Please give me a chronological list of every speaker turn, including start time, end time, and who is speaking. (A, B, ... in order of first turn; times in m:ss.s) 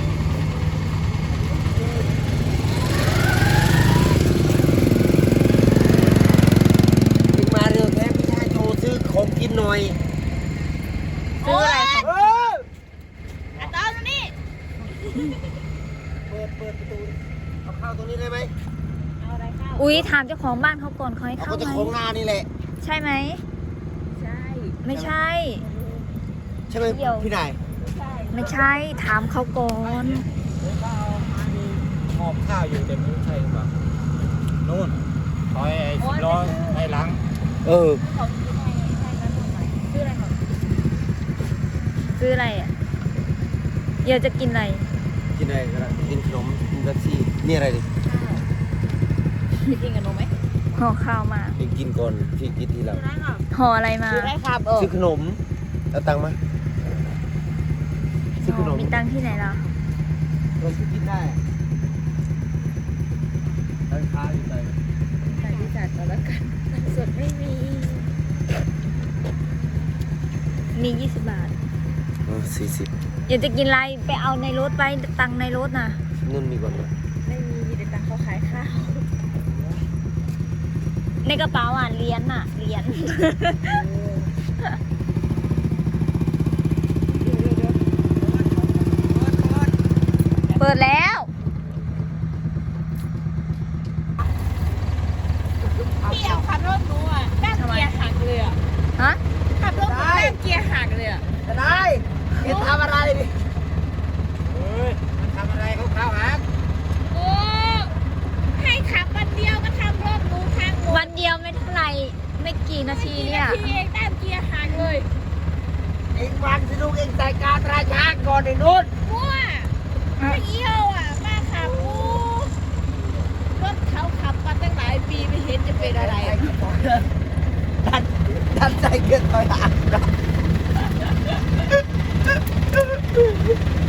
0:01.6-0:02.1 A
0:07.3-0:10.0 A
0:11.4-0:12.1 B
0:11.4-0:12.2 C
0:12.0-0:12.6 A
0:13.6-0:14.3 B
0:14.9-0:15.4 B
0:16.3-0:17.1 A
0:17.6-0:18.5 A
0:19.2-0:20.0 B
0:19.8-0:21.9 C
0:21.4-0:22.5 A
0:22.8-0:23.4 C
0:24.1-0:25.1 B
0:24.8-0:25.6 C
0:25.6-0:26.1 B
0:26.7-0:27.6 A
0:26.8-0:27.3 C
0:27.8-0:29.3 B
0:28.3-0:30.2 C
0:29.8-0:33.7 D
0:34.6-0:37.2 D
0:36.0-0:36.8 B
0:37.6-0:38.0 A
0:38.0-0:40.4 B
0:42.2-0:42.7 C
0:44.0-0:44.9 C
0:45.3-0:47.9 A
0:48.0-0:48.5 B
0:49.6-0:50.3 B
0:50.7-0:51.6 C
0:51.6-0:53.0 A
0:52.9-0:53.4 B
0:53.5-0:54.3 C
0:54.1-0:54.9 B
0:54.8-0:55.4 A
0:55.9-0:56.4 A
0:58.4-0:59.0 A
0:58.4-0:59.6 C
1:00.6-1:01.4 A
1:03.9-1:04.8 A
1:05.2-1:08.1 B
1:10.7-1:11.5 C
1:12.2-1:12.9 A
1:13.3-1:16.0 C
1:16.2-1:16.9 A
1:17.2-1:19.0 B
1:21.2-1:23.8 C
1:23.8-1:24.1 B
1:27.1-1:27.8 B
1:28.2-1:29.7 A
1:30.6-1:31.3 C
1:35.8-1:38.6 B
1:36.0-1:36.4 A
1:37.5-1:37.9 C
1:39.6-1:41.2 B
1:39.7-1:40.4 A
1:41.4-1:43.4 A
1:42.4-1:42.8 B
1:44.4-1:46.4 D
1:47.1-1:47.9 B
1:48.5-1:51.1 B
1:50.9-1:53.8 C
1:52.8-1:55.0 B
1:56.1-1:58.9 A
1:59.0-2:02.5 B
2:03.5-2:06.5 B
2:05.8-2:07.1 A
2:07.8-2:10.1 A
2:12.7-2:13.5 A